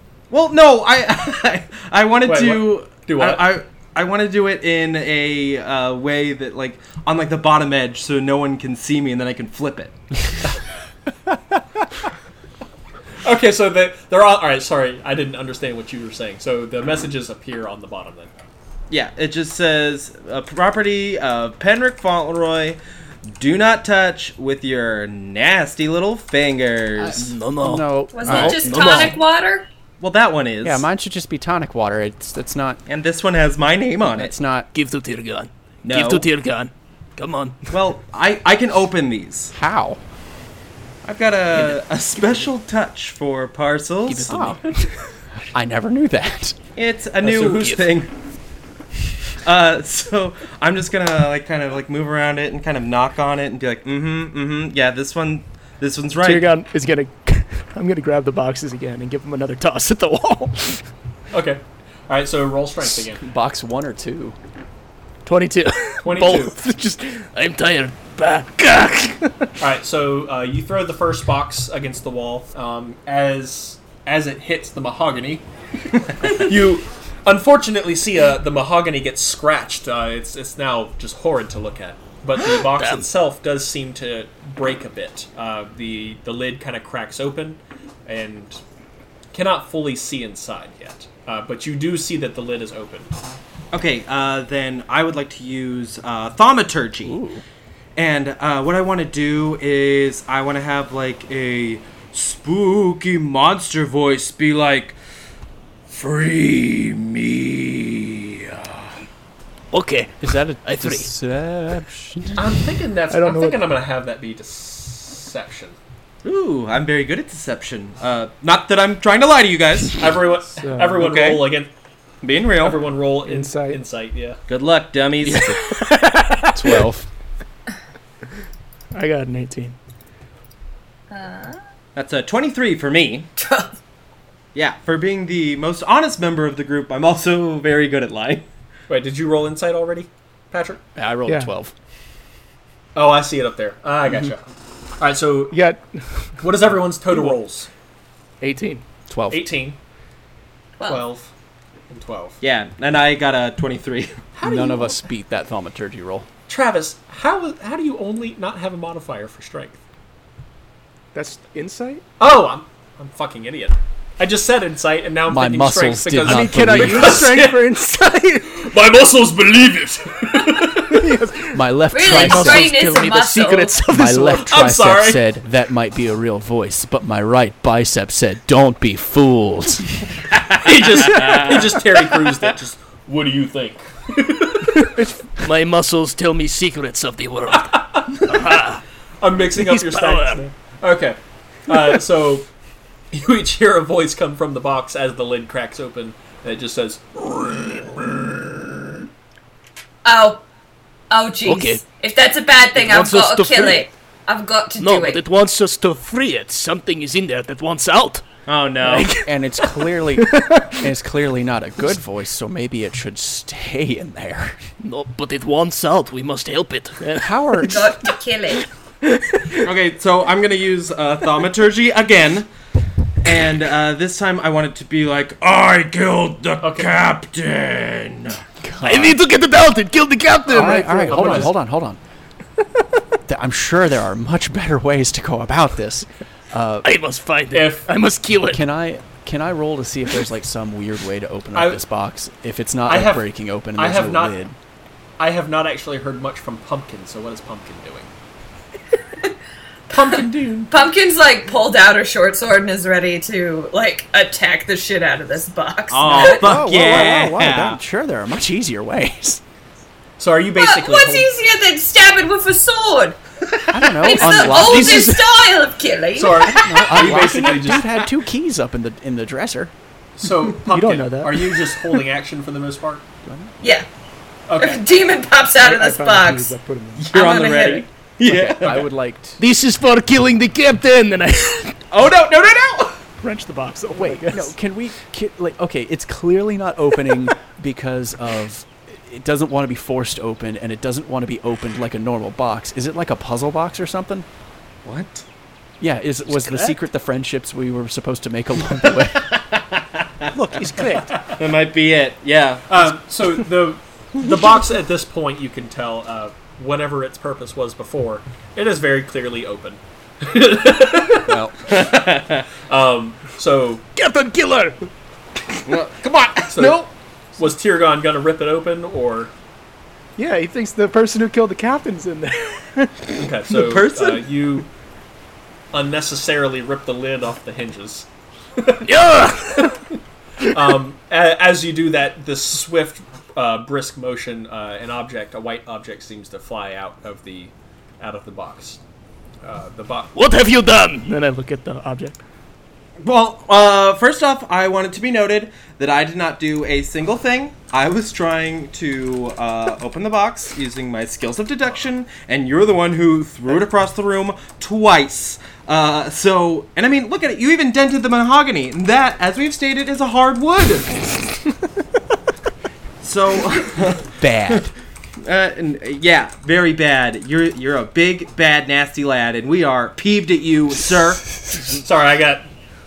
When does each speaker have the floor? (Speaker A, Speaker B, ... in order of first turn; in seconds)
Speaker A: 0.3-10.0, 18.9-27.4, 30.0-30.9, 32.9-34.3, 35.8-36.3, 37.7-39.5, 41.0-44.5, 46.8-48.1, 49.4-56.5, 93.7-97.2, 98.0-105.0, 105.9-109.0, 116.2-120.0, 121.0-121.5, 122.2-122.8, 124.5-125.6, 131.9-133.3, 134.5-138.5, 152.4-154.2, 180.5-181.8, 208.5-209.1, 219.6-222.5, 223.2-228.4, 255.9-257.8, 277.0-278.9, 281.9-283.0, 294.9-295.2, 298.9-300.3, 301.3-302.7, 311.7-312.4, 315.7-316.9, 323.5-324.3, 343.0-361.3, 363.0-364.7, 365.2-371.3
Speaker B: 2.2-3.5, 13.2-18.3, 61.3-63.2, 66.0-66.6, 69.6-75.5, 76.2-88.6, 89.3-93.1, 112.3-115.8, 120.0-121.7, 122.6-124.4, 138.9-140.8, 142.9-144.4, 145.0-145.6, 146.4-147.7, 149.3-149.8, 150.8-151.3, 151.9-152.4, 154.3-155.0, 156.5-159.8, 162.2-167.7, 168.5-171.2, 174.4-175.3, 180.6-184.9, 187.5-188.6, 189.2-192.5, 193.1-198.5, 226.6-226.9, 231.1-231.5, 237.5-237.9, 241.5-241.8, 242.9-244.4, 245.2-248.1, 249.9-250.7, 260.2-261.3, 266.2-268.1, 270.2-273.0, 274.5-274.8, 302.7-311.4, 312.7-313.8, 316.5-319.3, 323.2-324.7, 325.7-329.8, 330.4-338.8, 339.4-340.2, 371.7-372.5
Speaker C: 27.0-29.1, 30.6-32.8, 34.1-34.7, 39.5-40.0, 44.1-44.6, 45.5-46.6, 63.2-64.4, 97.0-97.4, 110.2-112.4, 126.5-127.1, 141.0-141.7, 149.1-149.5, 154.4-156.3, 165.3-167.3, 171.5-172.8, 173.9-180.1, 209.2-214.7, 217.2-217.9, 228.6-229.2, 230.5-232.0, 233.3-236.9, 238.5-244.6, 256.1-259.4, 263.7-265.2, 266.4-269.7, 273.3-273.5, 278.2-279.4, 283.9-294.3, 295.8-299.3, 311.3-311.6, 364.1-364.7
Speaker D: 27.1-29.2, 34.7-37.6, 44.1-44.9, 47.2-47.9, 65.8-66.5, 67.3-69.2, 82.5-83.1, 109.7-111.1, 125.2-126.8, 172.1-174.4, 185.4-188.8, 189.5-190.4, 201.4-201.8, 202.8-203.9, 204.8-208.2, 208.8-209.3, 214.8-217.3, 228.8-231.4, 236.8-238.6, 279.4-281.8, 296.4-296.7, 300.3-301.1, 314.0-314.8, 328.9-329.8, 340.1-341.7
Speaker E: 28.1-29.7, 131.1-131.6, 133.4-133.8, 150.8-151.0, 171.9-173.8, 200.0-200.4, 201.1-205.2, 217.6-218.7, 249.9-256.5, 260.6-263.2, 264.0-266.5, 273.6-273.9, 274.6-276.6, 277.1-277.9
Speaker F: 56.2-60.8, 65.3-67.2, 113.1-113.7, 120.5-121.0, 123.2-123.8, 128.9-129.8, 141.3-141.5, 145.5-145.8, 147.1-147.4, 148.4-148.8, 161.1-162.0, 166.2-168.6, 170.9-171.7, 210.3-210.8, 270.7-271.6, 275.6-277.1, 283.2-284.5, 320.2-323.1, 341.1-342.1